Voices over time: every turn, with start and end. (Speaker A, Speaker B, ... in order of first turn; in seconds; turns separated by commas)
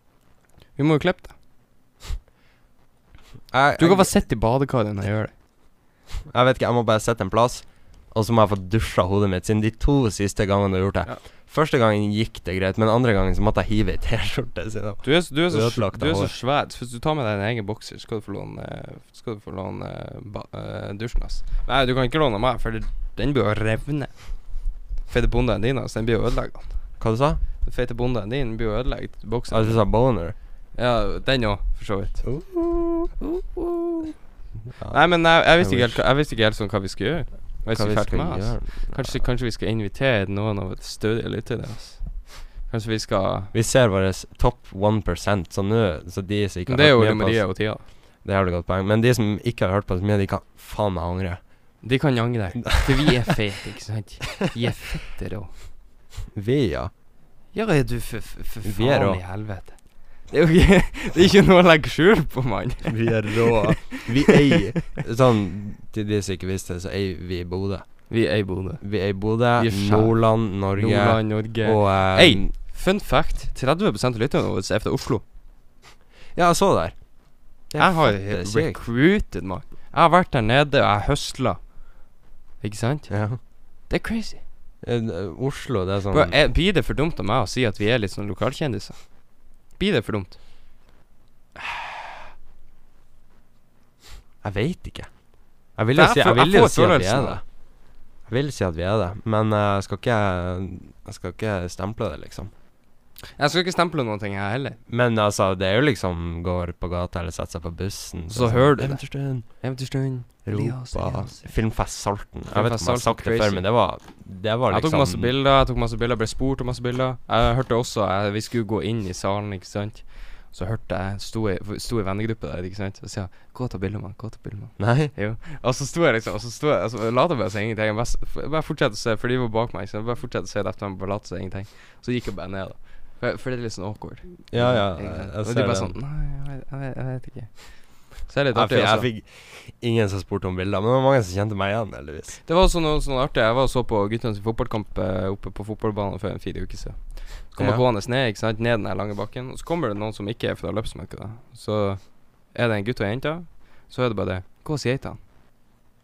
Speaker A: 0.8-1.4, Speaker B: 3.5-4.2, Speaker A: 3.8-5.3, Speaker B: 6.3-16.3, Speaker A: 15.0-27.0, Speaker B: 27.0-27.4, Speaker A: 27.6-32.3, Speaker B: 29.5-30.3, Speaker B: 32.2-33.1, Speaker A: 33.2-34.2, Speaker B: 34.7-36.0, Speaker A: 34.9-43.5, Speaker B: 37.7-39.2, Speaker B: 43.5-51.8, Speaker A: 46.7-47.9, Speaker A: 51.8-55.6, Speaker B: 56.3-56.9, Speaker A: 57.5-64.1, Speaker B: 58.6-59.2, Speaker B: 62.9-72.5, Speaker A: 68.1-75.2, Speaker B: 76.3-78.8, Speaker A: 77.8-82.0, Speaker A: 82.6-84.4, Speaker B: 83.1-83.4, Speaker B: 84.8-86.3, Speaker A: 86.1-90.4, Speaker B: 94.4-102.5, Speaker A: 95.9-97.4, Speaker A: 103.3-104.8, Speaker B: 104.9-109.7, Speaker A: 108.3-114.1, Speaker B: 110.4-115.3, Speaker A: 114.7-139.1, Speaker B: 124.8-125.1, Speaker B: 134.5-135.9, Speaker B: 138.5-142.4, Speaker A: 142.4-155.2, Speaker B: 147.6-147.8